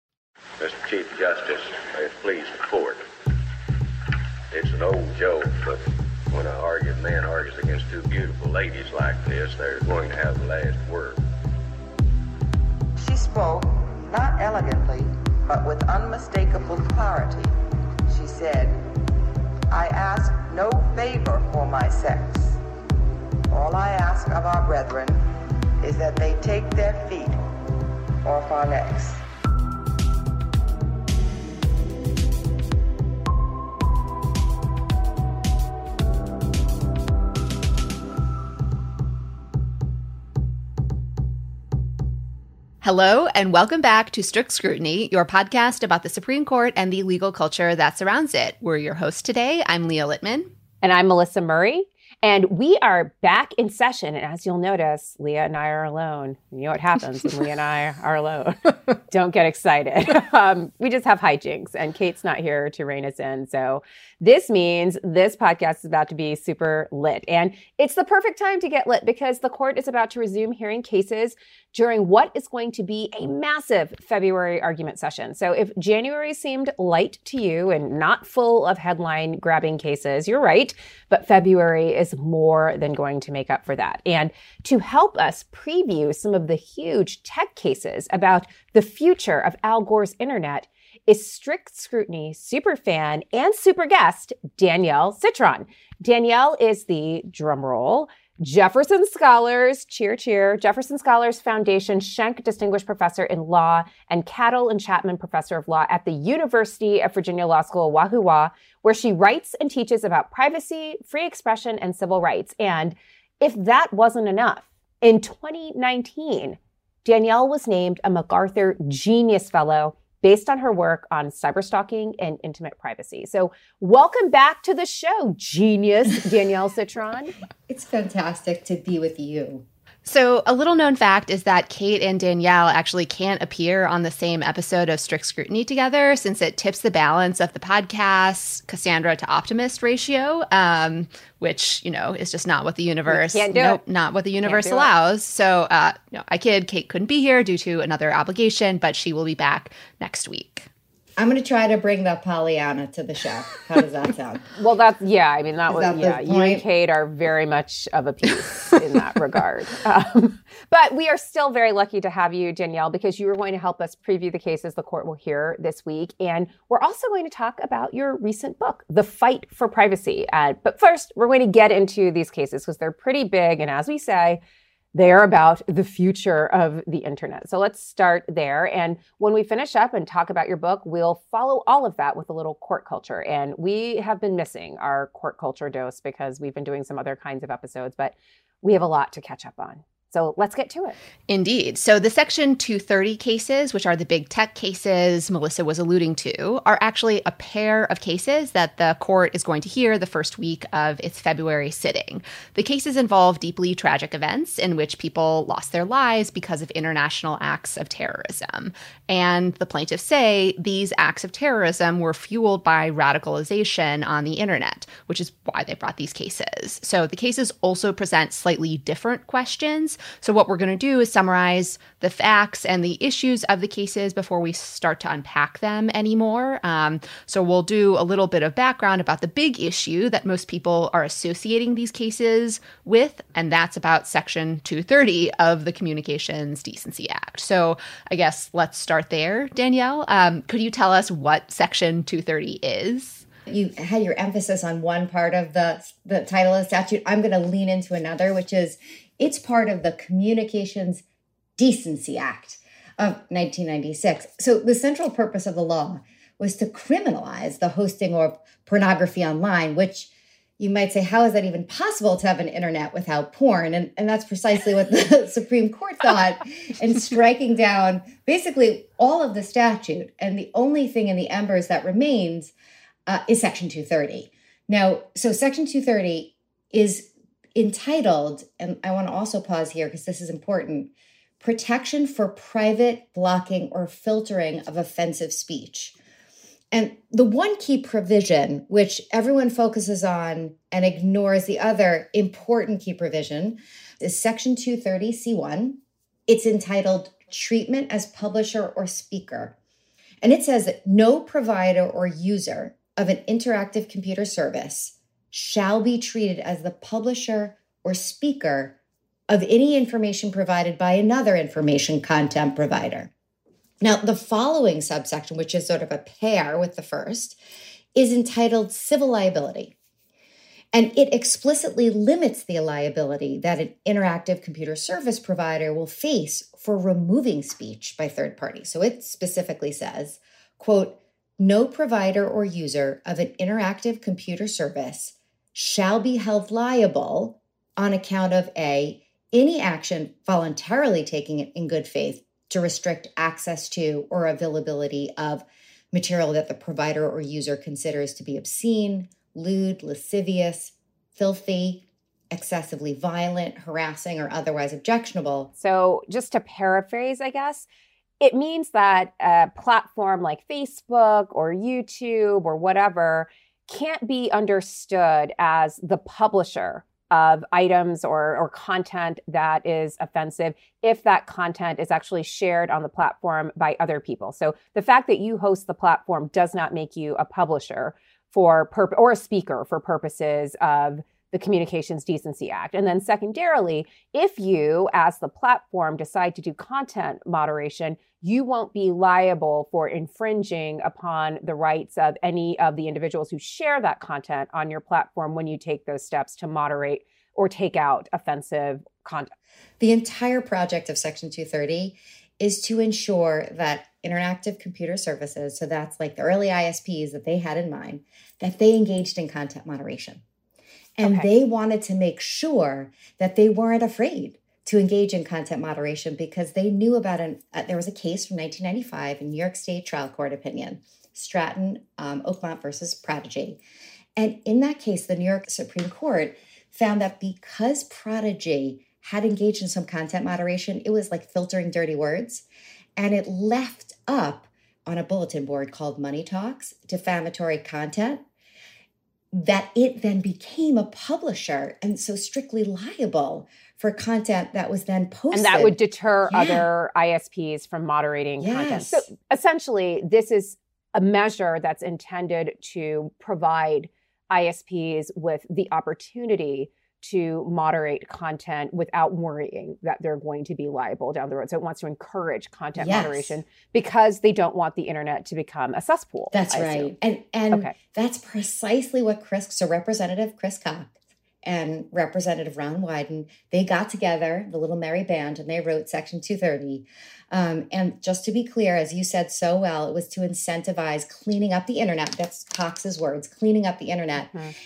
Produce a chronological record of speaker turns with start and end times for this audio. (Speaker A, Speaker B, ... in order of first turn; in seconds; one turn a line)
Speaker A: 0.6-3.0
Speaker A: 4.5-11.2
Speaker B: 13.0-15.0
Speaker C: 13.1-17.4
Speaker B: 15.6-17.4
Speaker B: 18.1-18.7
Speaker C: 18.2-18.6
Speaker B: 19.7-22.3
Speaker C: 19.8-22.3
Speaker B: 23.5-25.0
Speaker C: 23.6-25.1
Speaker C: 25.9-27.3
Speaker B: 26.1-27.2
Speaker C: 28.3-29.1
Speaker B: 28.3-28.9
Speaker D: 42.8-50.5
Speaker E: 50.8-127.3
Speaker B: 127.7-129.7
Speaker D: 130.1-150.7
Speaker E: 143.1-143.8
Speaker E: 144.4-144.9
Speaker B: 151.2-154.5
Speaker E: 154.6-174.4
Speaker B: 155.7-156.6
Speaker E: 174.9-191.0
Speaker D: 191.3-243.2
Speaker B: 243.5-251.0
Speaker B: 251.6-272.5
Speaker B: 273.1-286.0
Speaker B: 286.7-299.6
Speaker B: 300.2-308.8
Speaker B: 309.3-313.1
Speaker B: 313.8-317.4
Speaker B: 317.9-319.8
Speaker B: 320.7-355.5
Speaker E: 355.6-357.7
Speaker E: 358.2-399.3
Speaker B: 399.8-410.2
Speaker B: 411.0-423.6
Speaker E: 411.0-411.3
Speaker B: 424.2-432.4
Speaker B: 433.0-438.2
Speaker B: 439.3-445.8
Speaker E: 445.3-466.9
Speaker B: 446.3-446.7
Speaker B: 448.4-449.1
Speaker B: 462.8-463.4
Speaker B: 466.3-484.3
Speaker E: 484.2-484.5